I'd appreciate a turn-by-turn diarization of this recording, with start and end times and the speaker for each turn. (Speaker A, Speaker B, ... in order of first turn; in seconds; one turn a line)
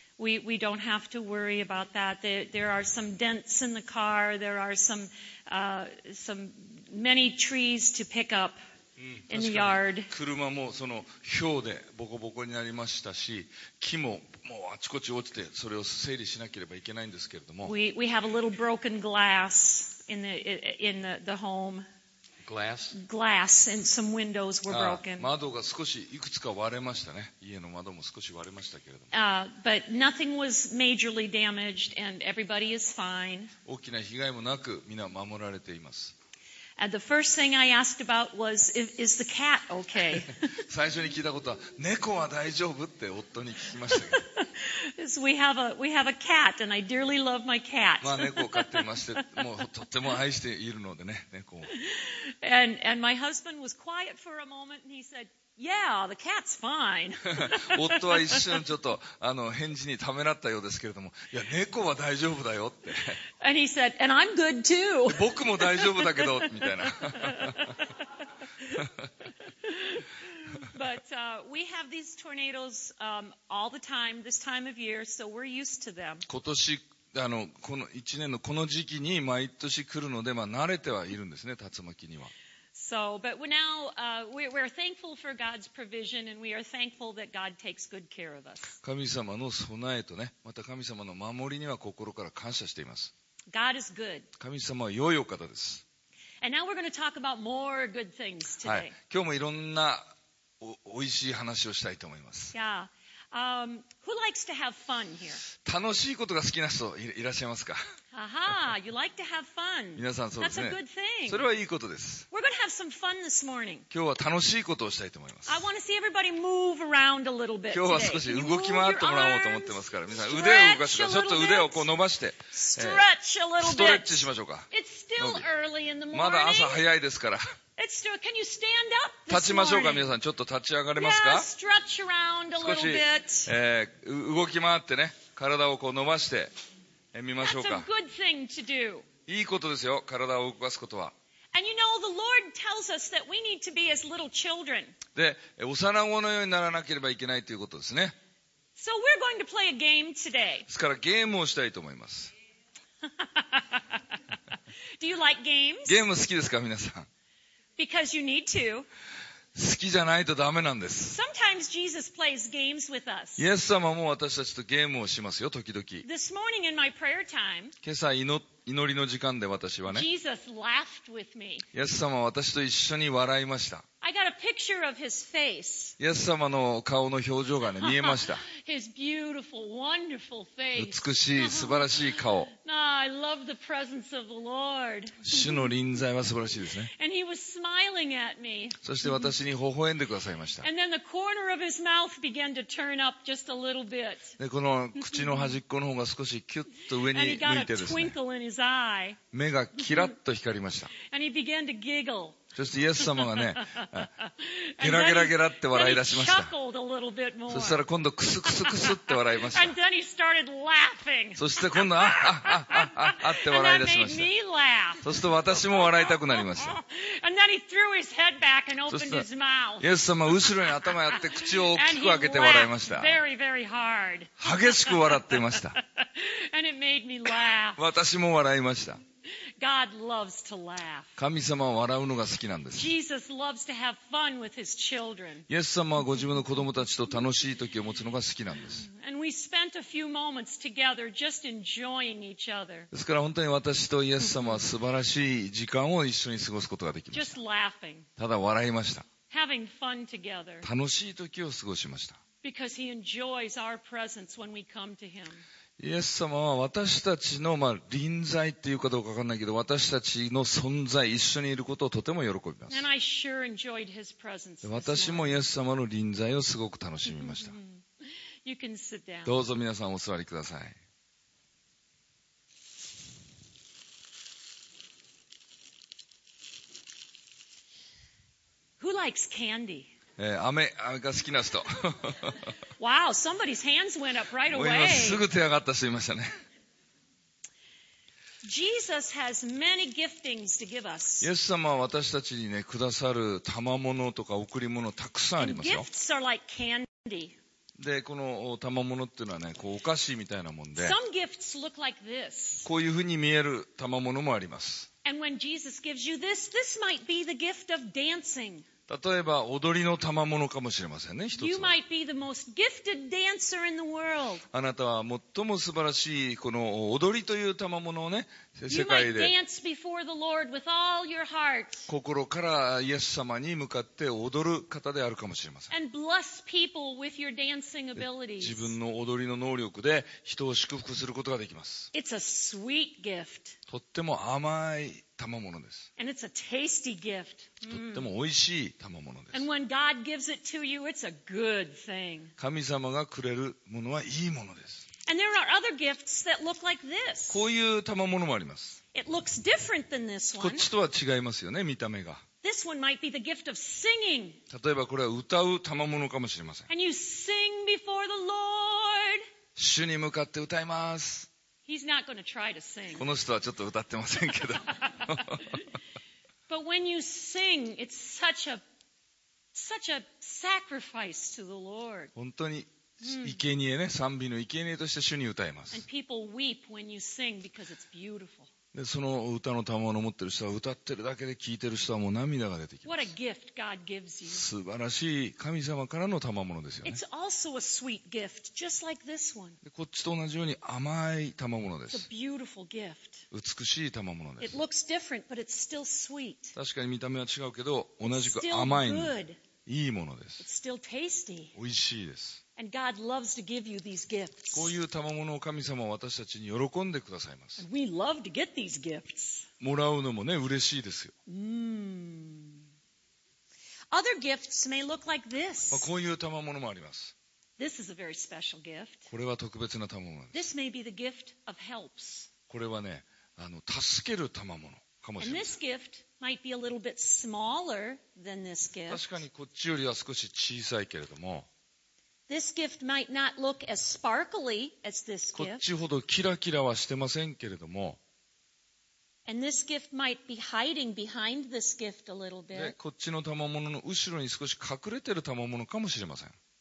Speaker A: 0.2-8.6
Speaker B: 9.0-17.7
Speaker A: 9.3-10.1
Speaker A: 17.6-21.9
Speaker B: 22.4-22.9
Speaker A: 22.9-25.3
Speaker B: 24.7-29.1
Speaker A: 29.1-33.5
Speaker B: 33.6-36.1
Speaker A: 36.8-40.6
Speaker B: 40.6-44.2
Speaker A: 43.9-49.4
Speaker B: 48.0-51.7
Speaker A: 51.7-58.6
Speaker B: 57.3-63.2
Speaker A: 63.4-68.8
Speaker B: 65.1-67.9
Speaker B: 68.7-69.1
Speaker A: 69.5-76.3
Speaker B: 76.3-82.3
Speaker A: 82.7-88.8
Speaker B: 88.8-93.1
Speaker A: 93.5-94.3
Speaker B: 94.4-95.8
Speaker A: 96.4-98.9
Speaker B: 98.6-102.5
Speaker A: 102.5-105.5
Speaker B: 105.6-107.8
Speaker A: 108.1-111.5
Speaker B: 110.0-112.3
Speaker A: 112.3-113.9
Speaker B: 113.9-115.6
Speaker A: 115.5-121.9
Speaker B: 117.7-123.0
Speaker A: 122.5-126.9
Speaker B: 123.6-124.7
Speaker B: 125.2-125.5
Speaker B: 126.1-127.4
Speaker A: 127.8-130.1
Speaker B: 129.3-131.5
Speaker A: 131.0-133.5
Speaker B: 132.6-136.5
Speaker B: 137.1-137.9
Speaker A: 137.4-139.1
Speaker B: 139.3-141.1
Speaker A: 141.5-144.9
Speaker B: 145.2-148.2
Speaker A: 148.8-150.7
Speaker B: 150.7-152.3
Speaker A: 153.1-154.0
Speaker A: 155.0-156.0
Speaker B: 155.9-157.1
Speaker A: 157.8-158.9
Speaker B: 159.5-161.2
Speaker A: 161.1-163.4
Speaker B: 163.4-166.1
Speaker A: 166.0-167.8
Speaker B: 167.8-170.1
Speaker A: 169.9-171.7
Speaker B: 171.7-173.8
Speaker A: 174.0-176.0
Speaker B: 176.0-178.4
Speaker A: 177.8-185.7
Speaker B: 180.8-182.5
Speaker B: 185.2-186.9
Speaker A: 186.9-188.8
Speaker B: 188.8-190.7
Speaker A: 190.6-194.4
Speaker B: 194.4-198.2
Speaker A: 195.0-195.5
Speaker A: 196.9-199.2
Speaker B: 199.3-200.9
Speaker A: 200.9-202.5
Speaker B: 202.5-204.1
Speaker A: 203.0-207.8
Speaker B: 204.8-206.5
Speaker B: 207.5-209.8
Speaker A: 208.4-227.8
Speaker B: 211.4-214.3
Speaker B: 215.0-216.8
Speaker B: 218.9-219.3
Speaker B: 219.8-223.2
Speaker B: 224.4-225.8
Speaker B: 227.8-229.0
Speaker A: 229.6-231.2
Speaker B: 231.2-232.9
Speaker A: 232.8-235.5
Speaker B: 235.5-238.9
Speaker A: 238.9-242.9
Speaker B: 242.9-247.4
Speaker A: 247.1-248.1
Speaker B: 248.2-249.1
Speaker A: 249.3-250.7
Speaker B: 250.6-252.2
Speaker A: 252.4-255.4
Speaker B: 255.8-262.9
Speaker A: 262.7-265.4
Speaker B: 264.6-267.6
Speaker A: 267.0-269.4
Speaker B: 269.3-270.8
Speaker A: 278.8-279.9
Speaker B: 280.2-282.6
Speaker A: 282.8-285.2
Speaker B: 284.5-286.3
Speaker A: 288.4-291.3
Speaker B: 291.2-295.9
Speaker A: 295.4-297.4
Speaker B: 297.8-301.0
Speaker A: 300.8-302.7
Speaker B: 302.6-304.9
Speaker A: 305.1-308.7
Speaker B: 308.9-311.8
Speaker A: 311.4-314.4
Speaker B: 314.5-319.4
Speaker A: 318.7-321.9
Speaker B: 321.9-325.7
Speaker A: 325.7-328.8
Speaker B: 328.0-331.9
Speaker A: 331.9-333.6
Speaker B: 333.7-335.9
Speaker A: 336.0-338.1
Speaker B: 337.7-339.5
Speaker A: 339.3-342.3
Speaker B: 342.4-344.9
Speaker A: 345.1-347.5
Speaker B: 347.3-348.8
Speaker A: 348.9-350.7
Speaker B: 350.4-352.2
Speaker A: 352.4-354.4
Speaker B: 354.5-356.7
Speaker A: 356.7-359.2
Speaker B: 359.6-361.3
Speaker A: 361.7-363.1
Speaker B: 363.0-365.6
Speaker A: 364.7-365.1
Speaker A: 366.5-368.6
Speaker A: 369.5-372.1
Speaker B: 372.1-375.9
Speaker A: 373.0-373.4
Speaker A: 375.7-378.5
Speaker B: 378.7-383.1
Speaker A: 382.9-384.5
Speaker B: 384.3-387.0
Speaker A: 386.8-389.6
Speaker B: 389.6-392.1
Speaker A: 391.9-393.3
Speaker B: 393.3-394.6
Speaker A: 394.4-396.6
Speaker B: 396.6-399.1
Speaker A: 398.1-399.4
Speaker B: 399.7-400.4
Speaker A: 400.4-401.6
Speaker B: 401.6-402.4
Speaker A: 402.6-404.7
Speaker B: 404.5-407.6
Speaker A: 407.6-409.5
Speaker B: 409.6-411.1
Speaker A: 411.3-412.6
Speaker A: 413.9-415.9
Speaker B: 415.7-417.1
Speaker A: 417.6-419.1
Speaker B: 419.1-420.5
Speaker A: 420.3-422.3
Speaker B: 422.5-425.6
Speaker A: 425.2-429.2
Speaker B: 428.9-431.5
Speaker A: 432.3-435.6
Speaker B: 435.4-438.0
Speaker A: 439.3-442.8
Speaker B: 442.5-446.4